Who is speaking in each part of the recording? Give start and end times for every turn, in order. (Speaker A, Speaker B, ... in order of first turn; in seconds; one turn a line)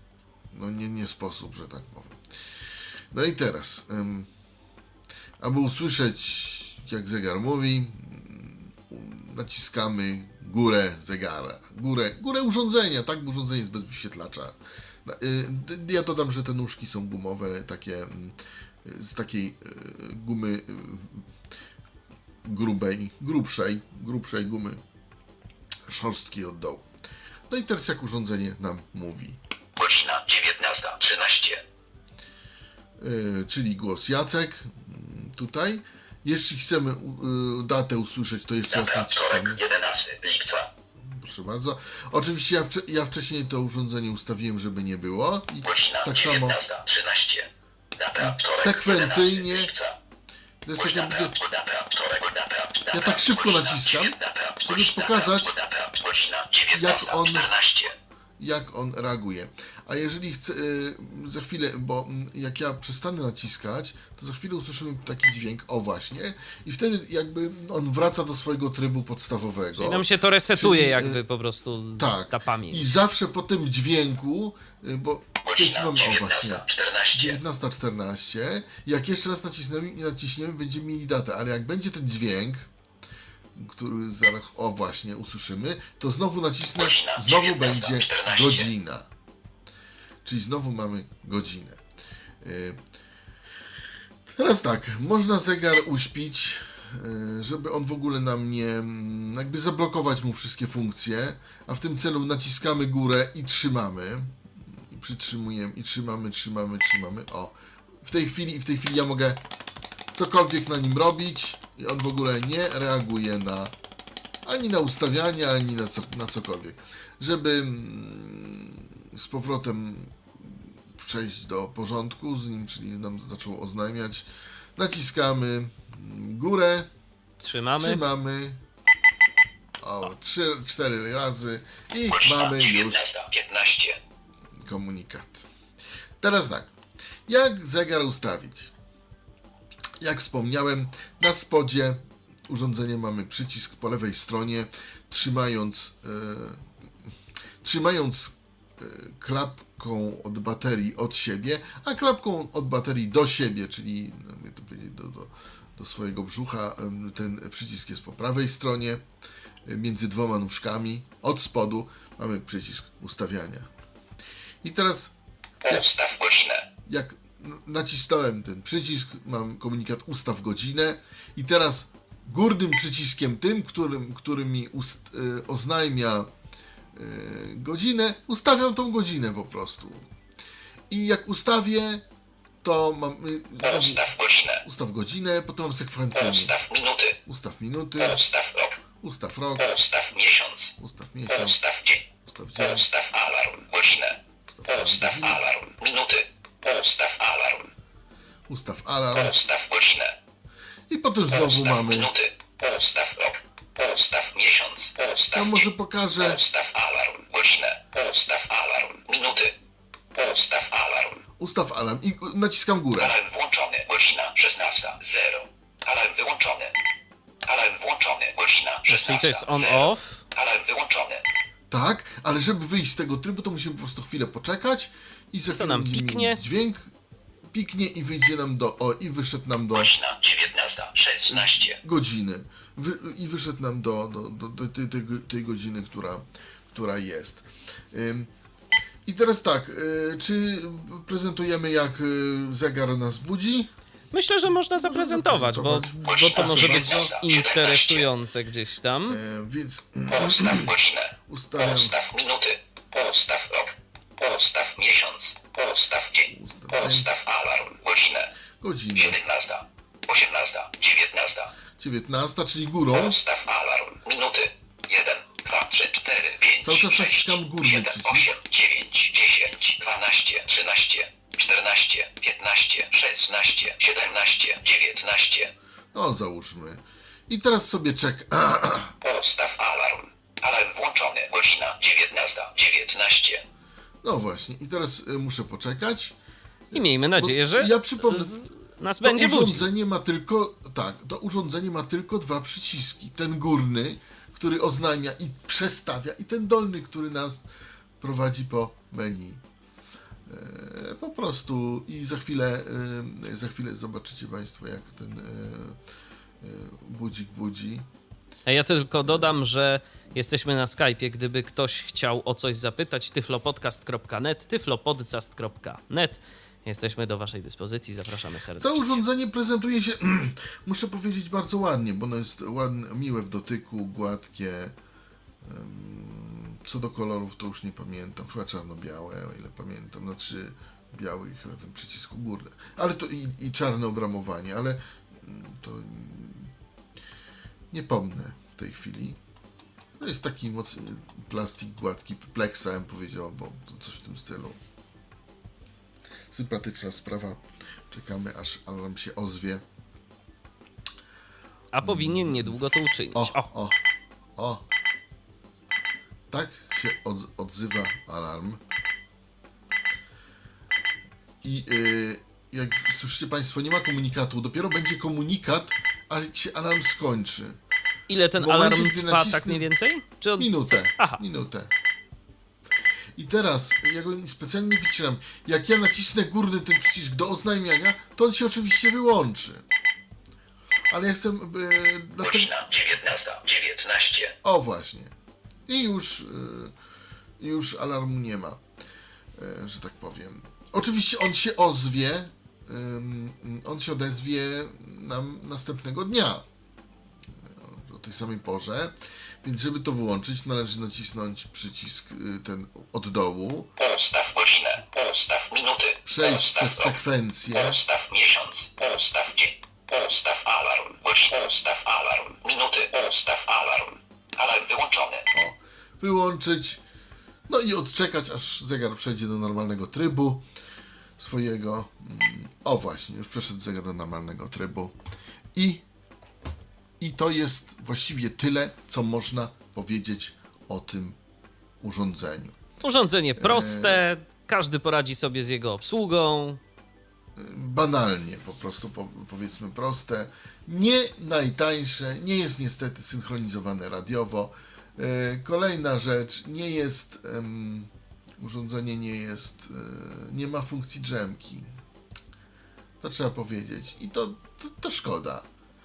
Speaker A: 0.5-2.2
Speaker A: 3.1-4.3
Speaker A: 5.4-21.3
Speaker A: 22.4-24.8
Speaker A: 25.9-26.9
Speaker A: 27.5-29.4
Speaker B: 29.8-31.6
Speaker A: 33.0-39.6
Speaker B: 38.7-40.7
Speaker A: 41.0-46.6
Speaker B: 45.6-50.0
Speaker A: 48.2-49.7
Speaker A: 50.6-51.4
Speaker B: 50.8-58.0
Speaker A: 52.9-55.6
Speaker A: 56.7-57.5
Speaker A: 58.4-71.2
Speaker C: 69.8-73.0
Speaker A: 72.0-82.7
Speaker B: 75.5-77.4
Speaker A: 83.5-89.1
Speaker B: 86.8-88.7
Speaker A: 90.2-91.8
Speaker A: 92.4-92.8
Speaker A: 94.3-109.4
Speaker A: 110.1-113.7
Speaker A: 114.5-126.9
Speaker C: 127.4-128.0
Speaker A: 127.8-128.6
Speaker A: 129.8-133.1
Speaker B: 132.1-134.0
Speaker A: 134.6-135.5
Speaker A: 136.2-136.7
Speaker A: 137.3-138.7
Speaker A: 140.0-146.6
Speaker A: 147.6-159.0
Speaker A: 159.7-163.7
Speaker A: 164.6-165.1
Speaker B: 165.7-166.7
Speaker A: 166.9-176.3
Speaker A: 176.9-180.1
Speaker A: 180.9-182.1
Speaker A: 182.6-186.6
Speaker B: 183.6-184.6
Speaker B: 186.2-187.2
Speaker A: 187.2-188.2
Speaker B: 188.0-188.8
Speaker A: 189.0-189.8
Speaker B: 189.6-190.7
Speaker A: 190.8-192.9
Speaker B: 191.3-192.0
Speaker B: 192.6-194.2
Speaker A: 194.5-195.5
Speaker B: 194.7-197.7
Speaker A: 198.5-199.4
Speaker B: 199.2-200.2
Speaker A: 200.9-202.1
Speaker B: 201.3-209.6
Speaker A: 205.3-206.4
Speaker B: 210.2-211.2
Speaker A: 211.4-213.2
Speaker B: 213.0-216.8
Speaker B: 217.4-221.2
Speaker C: 218.9-220.2
Speaker A: 221.7-226.9
Speaker C: 225.5-226.4
Speaker A: 227.5-229.9
Speaker B: 229.8-231.8
Speaker A: 231.3-238.3
Speaker A: 239.1-243.7
Speaker C: 244.1-249.2
Speaker A: 244.5-247.1
Speaker B: 246.0-248.1
Speaker A: 249.1-250.8
Speaker B: 250.2-258.3
Speaker A: 251.3-252.0
Speaker A: 256.3-257.1
Speaker A: 258.6-259.2
Speaker B: 259.0-261.5
Speaker A: 261.8-263.2
Speaker B: 262.9-275.5
Speaker A: 266.6-268.4
Speaker A: 275.9-279.0
Speaker B: 279.0-283.4
Speaker A: 284.0-286.1
Speaker A: 286.7-288.5
Speaker C: 286.7-289.6
Speaker A: 289.0-297.4
Speaker A: 298.0-299.4
Speaker A: 300.3-305.8
Speaker A: 306.4-307.9
Speaker C: 308.5-318.9
Speaker A: 309.0-309.4
Speaker A: 318.6-324.8
Speaker A: 325.4-336.5
Speaker A: 337.7-339.2
Speaker A: 340.0-344.6
Speaker A: 346.3-349.6
Speaker C: 351.7-353.5
Speaker A: 351.8-353.8
Speaker A: 354.4-354.6
Speaker A: 356.3-358.6
Speaker A: 361.4-367.6
Speaker C: 368.1-371.2
Speaker A: 368.4-369.7
Speaker A: 370.4-371.7
Speaker A: 373.2-379.6
Speaker A: 380.9-382.7
Speaker B: 382.2-384.3
Speaker A: 384.4-385.1
Speaker A: 385.7-386.7
Speaker A: 387.4-388.6
Speaker A: 389.4-396.5
Speaker A: 397.4-403.7
Speaker B: 403.8-406.9
Speaker A: 406.1-407.8
Speaker B: 407.6-415.3
Speaker A: 415.3-416.8
Speaker A: 417.5-420.5
Speaker A: 421.2-424.9
Speaker A: 425.5-425.8
Speaker A: 427.0-431.2
Speaker A: 431.8-432.6
Speaker C: 432.8-436.6
Speaker A: 433.4-434.1
Speaker A: 437.4-451.7
Speaker A: 453.0-455.5